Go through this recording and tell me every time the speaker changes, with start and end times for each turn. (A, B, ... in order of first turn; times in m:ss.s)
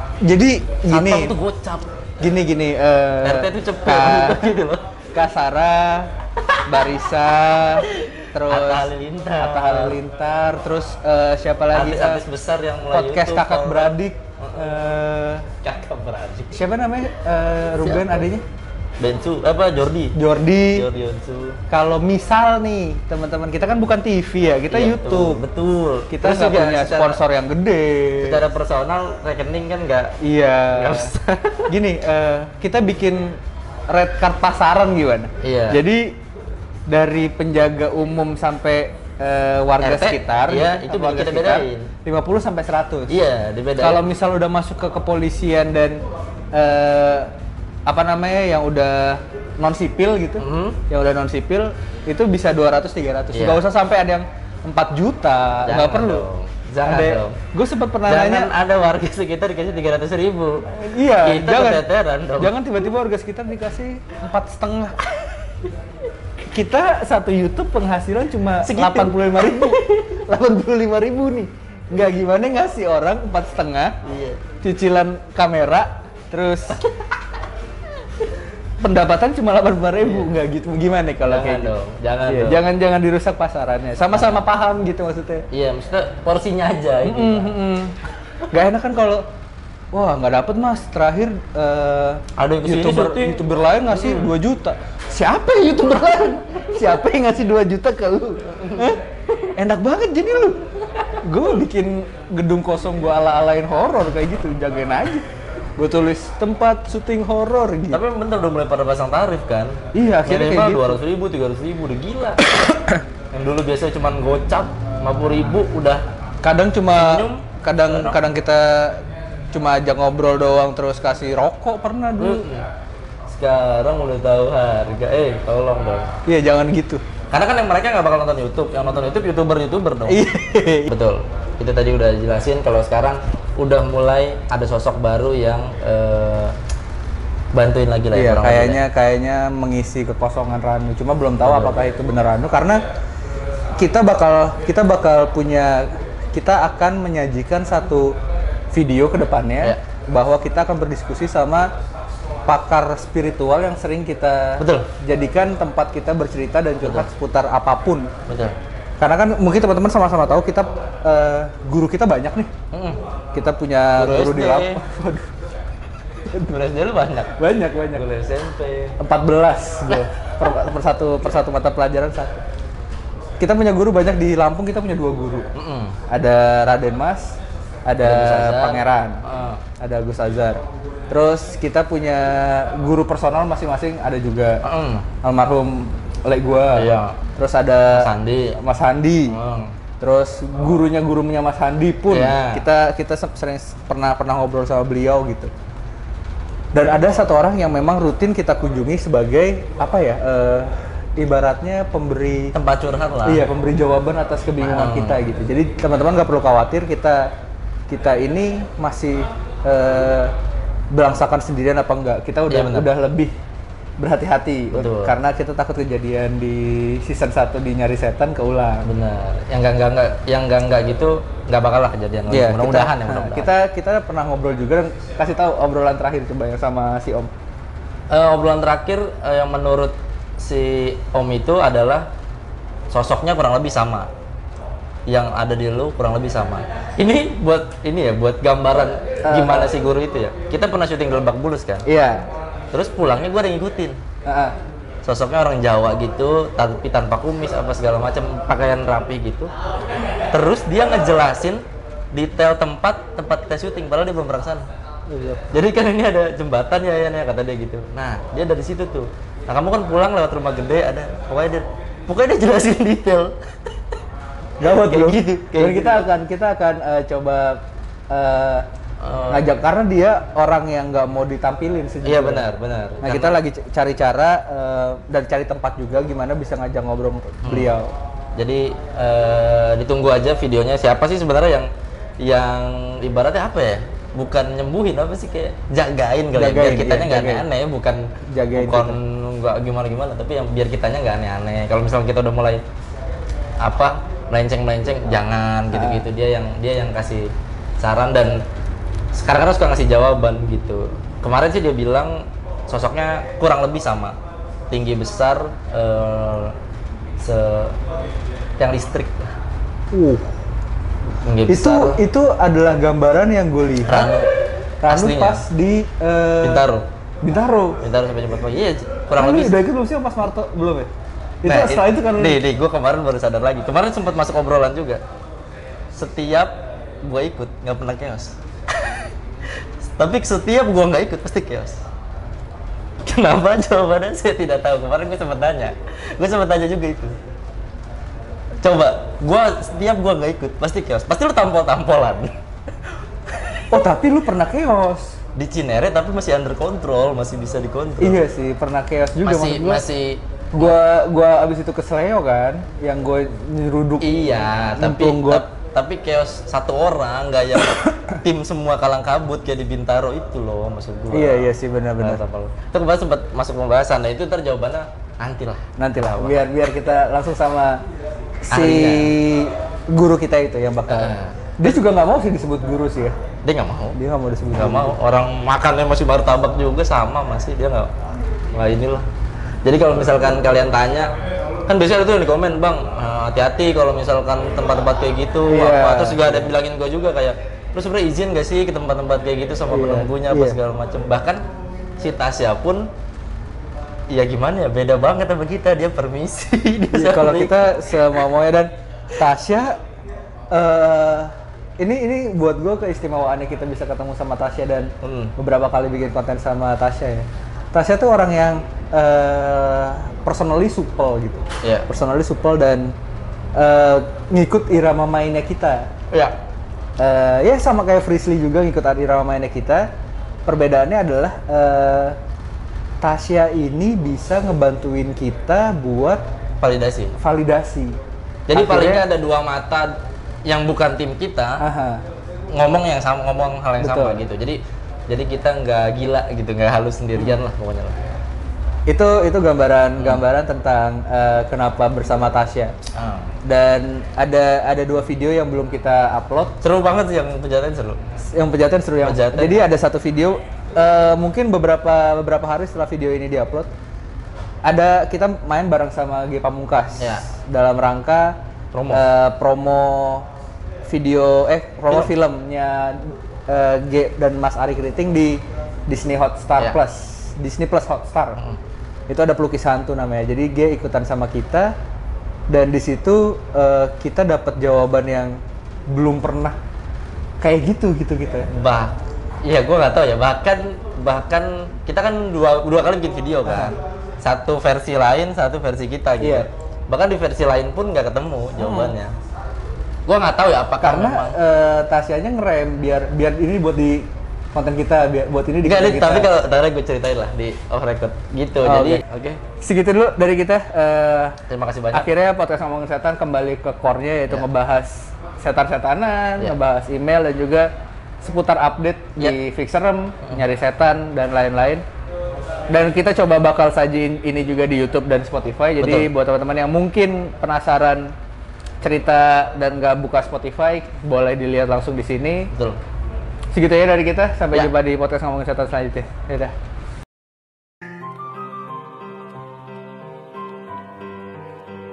0:00.2-0:01.4 A
0:00.9-0:01.9 B
0:02.2-0:04.6 A
0:03.2-0:04.8 B
0:05.1-0:06.1 A
0:06.4-0:06.9 B
0:06.6-0:08.9 A
0:07.9-0:10.0 B
0:09.4-0:12.2 A
0:11.7-0:14.8 B
0:12.9-0:15.4 A
0:15.6-0:16.6 B
0:16.5-0:18.4 A
0:17.8-0:18.3 B
0:19.0-0:20.2 B
0:20.1-0:20.9 A
0:20.7-0:21.6 B
0:21.7-0:25.4 A
0:24.7-0:27.2 B
0:26.1-0:28.4 A
0:28.2-0:30.2 B
0:30.2-0:31.1 A
0:30.7-0:31.7 B
0:31.7-0:33.4 A
0:33.9-0:36.2 A
0:35.4-0:35.8 B
0:36.9-0:43.1 A
0:39.8-0:41.9 B
0:43.1-0:44.0 B
0:43.8-0:46.0 A
0:46.5-0:47.3 A
0:47.8-0:56.2 A
0:50.4-0:50.8 B
0:53.3-0:53.6 B
0:55.6-0:57.4 B
0:56.8-0:58.5 A
0:58.0-1:02.6 B
1:00.8-1:05.0 A
1:06.5-1:14.0 A
1:08.6-1:10.1 B
1:14.0-1:14.4 B
1:14.6-1:16.8 A
1:18.8-1:21.7 A
1:20.0-1:20.3 B
1:21.2-1:22.6 B
1:22.2-1:25.4 A
1:24.1-1:24.4 B
1:25.5-1:27.5 B
1:27.0-1:27.9 A
1:28.5-1:29.2 A
1:29.9-1:39.0 A
1:32.4-1:34.3 B
1:38.5-1:38.9 B
1:39.5-1:40.6 A
1:41.2-1:45.2 A
1:45.8-1:48.0 A
1:47.9-1:52.5 B
1:49.9-1:51.0 A
1:53.3-1:56.0 B
1:56.4-1:59.0 A
1:56.9-1:58.2 B
1:59.5-2:02.5 A
2:02.2-2:02.7 B
2:03.3-2:06.1 B
2:06.2-2:07.0 A
2:07.3-2:10.2 B
2:10.0-2:10.9 A
2:10.8-2:16.5 B
2:17.5-2:18.8 B
2:18.1-2:22.8 A
2:21.4-2:21.8 B
2:23.8-2:28.2 A
2:28.7-2:31.7 A
2:32.4-2:38.1 A
2:34.6-2:34.9 B
2:36.8-2:37.1 B
2:38.3-2:38.6 B
2:39.0-2:42.5 A
2:42.7-2:43.0 B
2:43.3-2:45.3 A
2:43.9-2:44.8 B
2:46.4-2:47.4 B
2:47.3-2:48.0 A
2:47.9-2:49.0 B
2:49.0-2:52.3 A
2:53.4-2:55.5 A
2:55.5-2:56.0 B
2:56.1-2:59.2 A
2:58.0-2:59.6 B
2:59.8-3:04.6 A
3:04.6-3:05.0 B
3:05.2-3:09.4 A
3:06.7-3:07.2 B
3:07.9-3:08.6 B
3:09.3-3:09.7 B
3:10.0-3:15.5 A
3:12.1-3:12.6 B
3:16.7-3:22.5 A
3:22.5-3:23.4 B
3:23.2-3:27.3 A
3:24.6-3:25.2 B
3:27.9-3:30.3 A
3:30.9-3:33.3 A
3:32.5-3:32.9 B
3:34.0-3:38.9 A
3:34.7-3:35.2 B
3:38.8-3:43.5 B
3:42.3-3:47.3 A
3:48.1-3:52.1 B
3:52.9-3:54.1 B
3:55.1-4:01.8 B
3:59.2-3:59.7 A
4:01.8-4:02.2 A
4:02.7-4:04.0 B
4:04.2-4:04.5 A
4:05.0-4:09.5 B
4:10.3-4:14.6 B
4:15.1-4:15.4 A
4:15.5-4:23.4 B
4:24.6-4:28.6 A
4:24.6-4:26.0 B
4:29.0-4:29.5 B
4:29.3-4:32.5 A
4:32.0-4:33.4 B
4:33.0-4:37.9 A
4:37.4-4:37.7 B
4:38.4-4:52.6 B
4:46.3-4:47.5 A
4:48.3-4:49.0 A
4:53.6-4:58.4 B
4:55.7-4:56.0 A
4:59.1-5:04.2 B
5:04.7-5:06.5 B
5:07.2-5:07.8 B
5:08.6-5:09.3 B
5:09.9-5:10.4 A
5:11.2-5:12.0 B
5:11.4-5:14.1 A
5:13.9-5:14.3 B
5:14.8-5:16.7 A
5:14.9-5:15.4 B
5:16.4-5:16.8 B
5:17.2-5:17.8 A
5:17.8-5:19.6 B
5:19.1-5:20.9 A
5:21.4-5:22.4 A
5:21.4-5:25.0 B
5:25.9-5:29.1 B
5:29.8-5:31.8 B
5:33.0-5:37.2 B
5:38.6-5:42.3 B
5:43.4-5:43.6 B
5:43.7-5:45.2 A
5:45.4-5:48.2 B
5:48.0-5:49.8 A
5:49.2-5:50.8 B
5:50.5-5:55.5 A
5:54.0-6:01.5 B
6:01.1-6:02.2 A
6:02.0-6:06.4 B
6:05.8-6:07.8 A
6:08.4-6:13.2 A
6:08.5-6:09.1 B
6:10.9-6:11.4 B
6:13.4-6:14.0 B
6:13.9-6:15.0 A
6:14.5-6:17.9 B
6:18.5-6:19.0 B
6:19.6-6:21.1 B
6:21.7-6:31.4 B
6:25.5-6:26.5 A
6:29.7-6:30.6 A
6:32.0-6:32.9 B
6:34.1-6:38.2 B
6:36.9-6:39.8 A
6:40.5-6:52.9 A
6:45.0-6:45.3 B
6:51.6-6:51.9 B
6:53.5-6:55.9 A
6:56.1-6:56.4 B
6:57.0-6:59.9 A
7:00.4-7:02.2 A
7:03.0-7:06.2 A
7:06.6-7:07.1 B
7:07.2-7:08.0 A
7:08.5-7:11.6 B
7:08.5-7:09.0 A
7:11.6-7:12.0 A
7:12.5-7:18.0 B
7:13.8-7:14.2 A
7:18.9-7:22.7 A
7:20.0-7:20.2 B
7:22.9-7:23.3 B
7:23.4-7:26.5 A
7:26.6-7:28.0 B
7:28.3-7:33.7 A
7:29.0-7:29.7 B
7:34.6-7:38.4 A
7:37.0-7:37.2 B
7:38.7-7:39.0 B
7:38.9-7:40.2 A
7:40.9-7:48.4 A
7:41.9-7:42.1 B
7:49.1-7:51.7 A
7:52.5-7:56.6 A
7:57.4-7:58.5 A
7:58.5-8:09.1 B
8:03.4-8:03.7 A
8:06.2-8:06.5 A
8:08.6-8:09.0 A
8:10.0-8:11.4 B
8:10.8-8:16.3 A
8:15.6-8:19.4 B
8:18.6-8:19.0 A
8:19.6-8:21.4 A
8:21.5-8:22.1 B
8:21.9-8:27.7 A
8:28.2-8:31.8 A
8:32.7-8:38.1 A
8:35.8-8:36.1 B
8:38.8-8:42.5 A
8:42.5-8:42.8 B
8:43.5-8:46.5 A